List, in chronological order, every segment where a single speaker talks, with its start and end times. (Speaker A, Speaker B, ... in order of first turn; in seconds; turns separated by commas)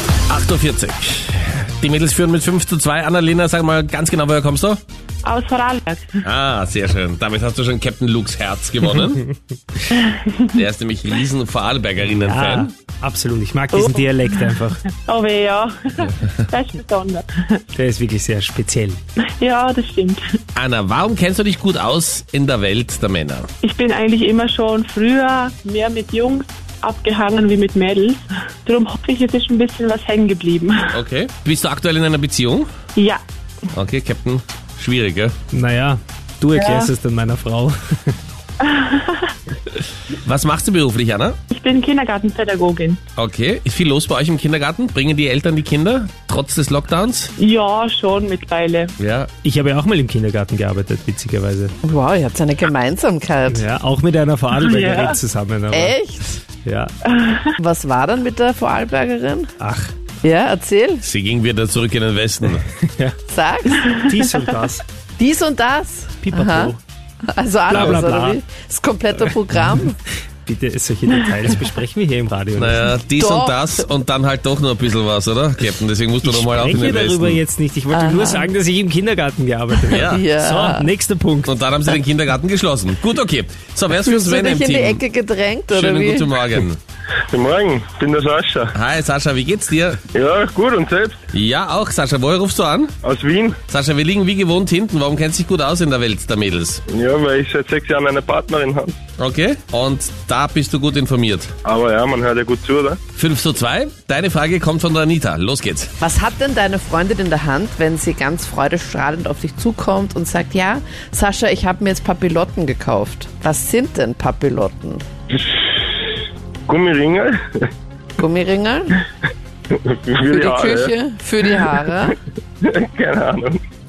Speaker A: 0.3-4.8, Speaker B: 5.2-6.2, Speaker A: 6.2-9.2, Speaker B: 10.0-10.5, Speaker A: 10.5-12.7, Speaker C: 12.1-14.8, Speaker B: 13.7-14.4, Speaker B: 15.1-17.6, Speaker C: 17.8-19.0, Speaker B: 19.4-20.2, Speaker A: 20.6-23.5, Speaker B: 23.6-30.9, Speaker A: 30.9-32.7, Speaker B: 33.0-33.2, Speaker A: 33.7-35.3, Speaker C: 35.5-38.2, Speaker B: 36.5-36.9, Speaker B: 38.7-39.2, Speaker A: 40.2-41.4, Speaker B: 41.5-43.0, Speaker A: 43.2-47.3, Speaker B: 47.4-48.9, Speaker A: 49.0-49.3, Speaker C: 49.4-51.7, Speaker D: 51.8-53.6, Speaker C: 53.5-56.0, Speaker B: 54.6-55.2, Speaker D: 55.7-56.4, Speaker C: 56.6-56.9, Speaker B: 57.1-57.5, Speaker D: 57.6-59.5, Speaker C: 59.6-59.9, Speaker D: 60.2-61.0, Speaker A: 61.0-62.6, Speaker C: 62.8-63.1, Speaker D: 63.3-64.0, Speaker C: 63.9-64.8, Speaker D: 65.2-66.8, Speaker C: 66.2-66.8, Speaker D: 67.3-70.0, Speaker C: 67.7-68.4, Speaker C: 70.4-73.0, Speaker A: 72.5-77.4, Speaker D: 73.2-73.8, Speaker C: 76.2-81.5, Speaker D: 77.9-78.5, Speaker A: 79.9-80.2, Speaker D: 79.9-80.9, Speaker A: 81.5-85.0, Speaker D: 83.9-86.3, Speaker A: 85.7-86.8, Speaker E: 87.3-88.7, Speaker A: 88.7-90.0, Speaker E: 90.1-91.2, Speaker A: 91.3-92.9, Speaker E: 93.0-93.6, Speaker A: 93.7-96.8, Speaker E: 96.9-99.0, Speaker A: 99.2-101.5, Speaker E: 101.7-103.0, Speaker A: 103.2-105.9, Speaker D: 106.0-115.0, Speaker E: 115.3-115.6, Speaker E: 116.7-117.7, Speaker D: 118.2-119.0, Speaker E: 119.7-120.9, Speaker D: 120.2-122.2, Speaker E: 122.6-123.6